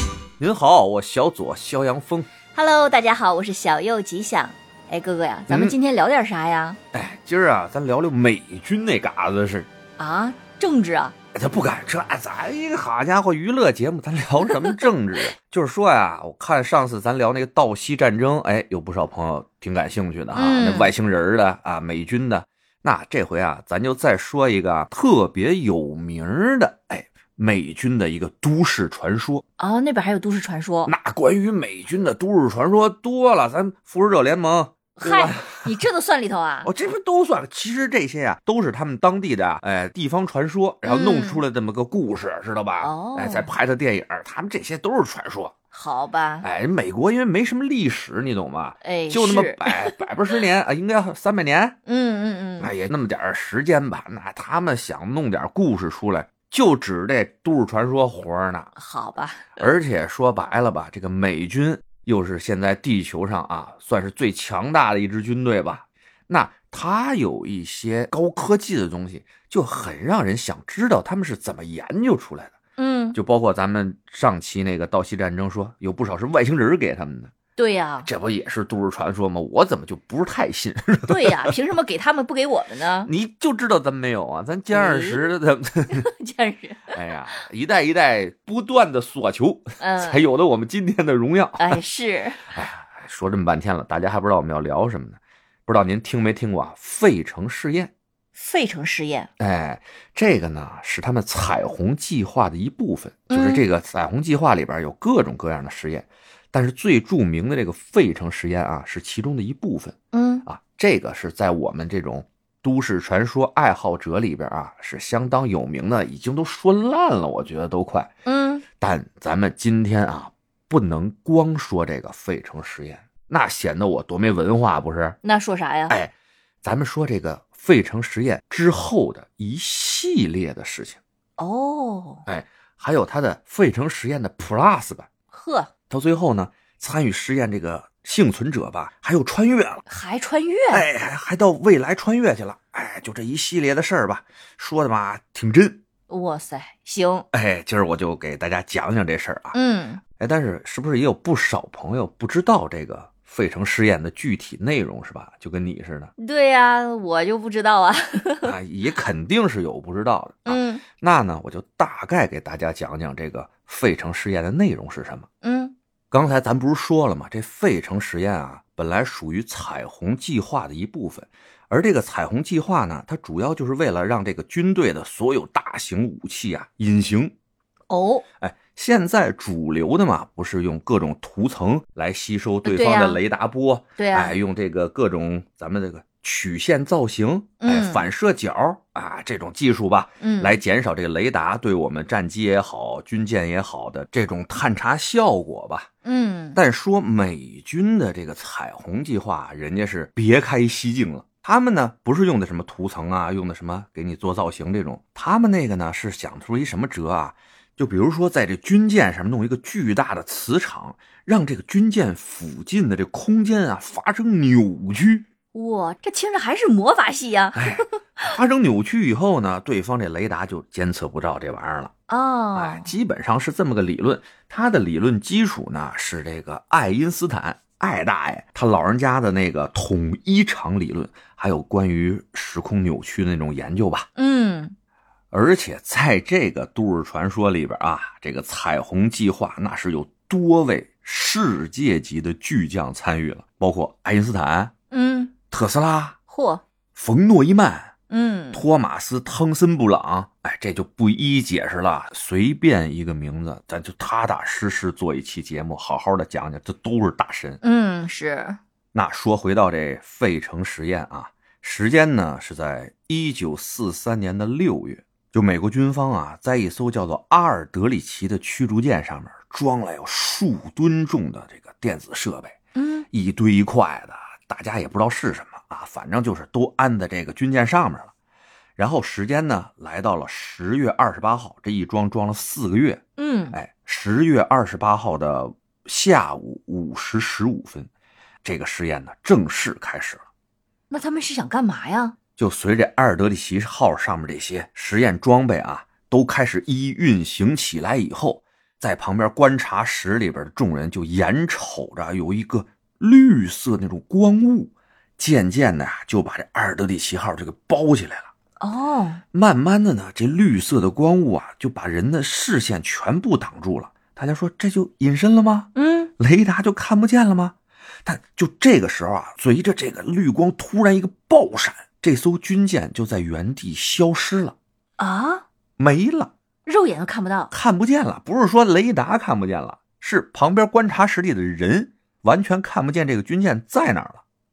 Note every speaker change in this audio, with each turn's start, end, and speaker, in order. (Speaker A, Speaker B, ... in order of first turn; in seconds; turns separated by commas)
Speaker A: 0.4-2.3, Speaker B: 2.5-6.8, Speaker A: 5.5-5.8, Speaker A: 6.9-9.7, Speaker B: 10.0-11.2, Speaker A: 11.3-29.4, Speaker B: 20.3-20.9, Speaker B: 29.6-30.9, Speaker A: 30.9-35.9, Speaker B: 35.0-36.7, Speaker A: 36.6-45.5, Speaker B: 40.9-41.4, Speaker B: 42.8-43.5, Speaker B: 45.7-46.5, Speaker A: 46.4-51.8, Speaker B: 48.8-49.9, Speaker B: 51.9-52.7, Speaker A: 52.6-58.7, Speaker B: 58.8-59.5, Speaker A: 59.6-72.6, Speaker B: 72.8-73.2, Speaker A: 73.1-77.3, Speaker B: 77.6-78.1, Speaker A: 78.0-81.5, Speaker B: 81.1-83.1, Speaker A: 83.0-86.1, Speaker B: 84.7-85.2, Speaker B: 85.9-86.9, Speaker A: 86.9-91.8, Speaker B: 89.8-90.2, Speaker B: 91.6-92.4, Speaker A: 92.5-97.9, Speaker B: 98.4-99.3, Speaker A: 99.4-118.1, Speaker B: 103.3-103.7, Speaker B: 110.1-110.5, Speaker B: 118.3-118.6, Speaker A: 118.8-125.2, Speaker B: 125.2-126.0, Speaker A: 126.6-131.0, Speaker B: 131.4-132.2, Speaker A: 132.3-135.1, Speaker B: 135.3-135.7, Speaker A: 135.9-139.8, Speaker B: 139.9-140.9, Speaker A: 140.7-145.8, Speaker B: 146.1-147.3, Speaker A: 147.3-149.6, Speaker B: 149.5-150.0, Speaker A: 150.2-156.1, Speaker B: 156.2-158.5, Speaker A: 158.4-165.3, Speaker B: 160.5-160.8, Speaker B: 165.4-165.8, Speaker A: 166.1-177.3, Speaker B: 177.9-178.2, Speaker A: 178.4-195.9, Speaker B: 182.6-183.2, Speaker B: 184.0-184.4, Speaker B: 187.6-188.0, Speaker B: 190.2-190.6, Speaker B: 196.0-196.6, Speaker A: 196.6-215.3, Speaker B: 215.5-218.3, Speaker A: 217.5-221.9, Speaker B: 222.1-222.9, Speaker A: 222.5-234.1, Speaker B: 234.2-234.8, Speaker A: 235.3-244.7, Speaker B: 244.9-245.3, Speaker A: 245.5-246.2, Speaker B: 246.3-246.6, Speaker A: 246.9-247.9, Speaker B: 248.1-248.6, Speaker A: 248.5-257.6, Speaker B: 257.6-258.6, Speaker A: 258.9-272.6, Speaker B: 272.8-273.1, Speaker A: 273.1-278.1, Speaker A: 278.8-287.9, Speaker B: 283.2-283.6, Speaker A: 288.4-290.2, Speaker B: 290.9-292.2, Speaker A: 292.4-308.3, Speaker B: 308.6-309.2, Speaker A: 309.3-324.6, Speaker B: 315.8-316.1, Speaker B: 325.0-325.4, Speaker A: 325.8-326.3, Speaker B: 326.7-327.5, Speaker A: 327.5-334.2